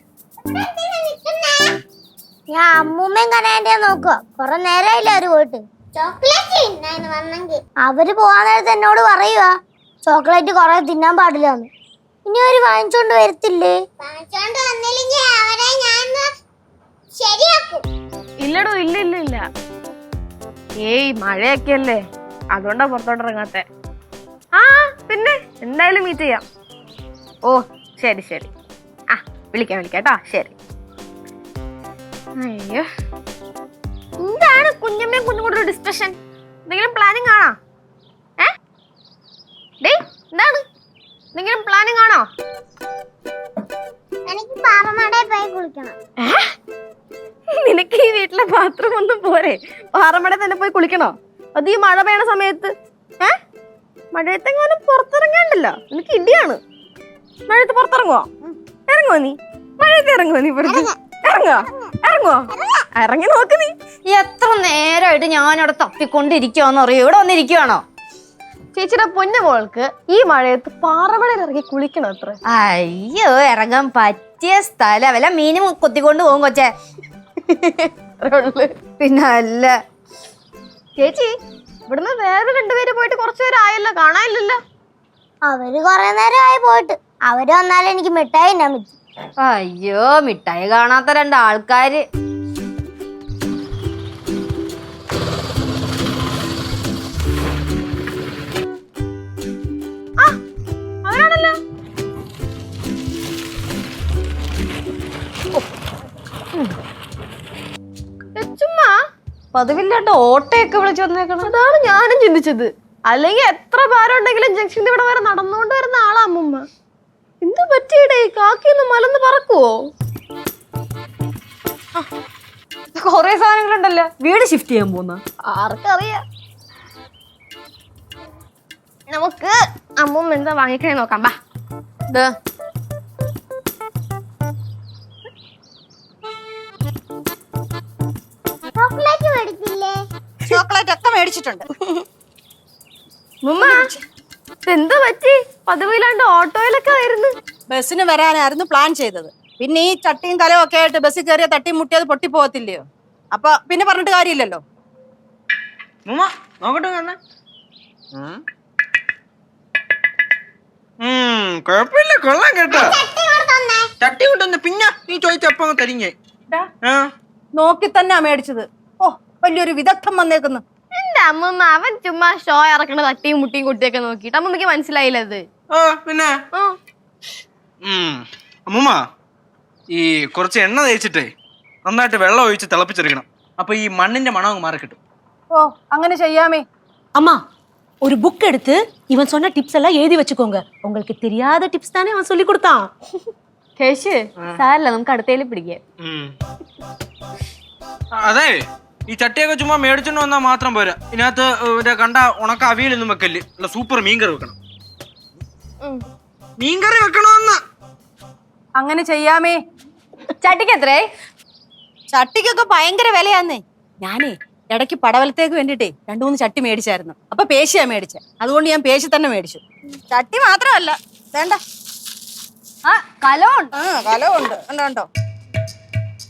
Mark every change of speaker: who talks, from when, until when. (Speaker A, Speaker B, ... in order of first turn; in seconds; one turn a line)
Speaker A: 0.6-1.4
Speaker A: 2.5-7.3
Speaker B: 6.6-7.5
Speaker A: 7.8-9.5
Speaker A: 10.1-11.7
Speaker A: 12.2-16.2
Speaker B: 14.3-14.9
Speaker B: 15.4-16.0
Speaker A: 17.2-17.8
Speaker C: 18.4-19.4
Speaker C: 20.8-22.0
Speaker C: 22.5-23.6
Speaker C: 24.6-26.4
Speaker C: 27.4-28.5
Speaker C: 29.1-30.5
Speaker C: 32.4-32.9
Speaker C: 34.2-37.5
Speaker C: 39.8-40.6
Speaker C: 41.3-42.2
Speaker A: 44.3-45.9
Speaker C: 46.2-46.5
Speaker C: 47.5-53.3
Speaker C: 54.1-56.6
Speaker C: 57.5-58.3
Speaker C: 58.9-63.7
Speaker D: 64.0-67.8
Speaker C: 68.7-72.4
Speaker D: 72.5-76.7
Speaker C: 78.2-78.8
Speaker D: 79.0-79.7
Speaker C: 81.0-81.3
Speaker C: 81.9-84.6
Speaker A: 85.5-88.9
Speaker D: 89.4-92.0
Speaker C: 101.0-101.5
Speaker C: 108.3-108.9
Speaker D: 109.5-111.4
Speaker C: 111.4-116.6
Speaker C: 117.4-119.7
Speaker D: 122.9-125.2
Speaker C: 125.5-126.2
Speaker C: 129.1-131.3
Speaker A: 138.8-140.0
Speaker E: 140.5-141.7
Speaker C: 143.4-143.9
Speaker C: 144.6-147.3
Speaker E: 147.7-154.6
Speaker F: 156.1-157.2
Speaker F: 158.1-158.4
Speaker F: 161.0-163.0
Speaker B: 163.2-163.8
Speaker F: 164.0-166.1
Speaker E: 167.6-170.6
Speaker C: 170.9-175.4
Speaker F: 175.7-176.3
Speaker F: 177.8-179.0
Speaker F: 179.9-181.3
Speaker F: 181.8-185.0
Speaker E: 185.5-186.6
Speaker B: 188.0-192.9
Speaker D: 193.8-195.8
Speaker F: 196.0-196.3
Speaker F: 198.2-204.5
Speaker F: 206.6-207.6
Speaker E: 208.8-209.6
Speaker D: 210.4-211.1
Speaker E: 212.1-221.6
Speaker D: 222.8-223.7
Speaker E: 223.8-225.1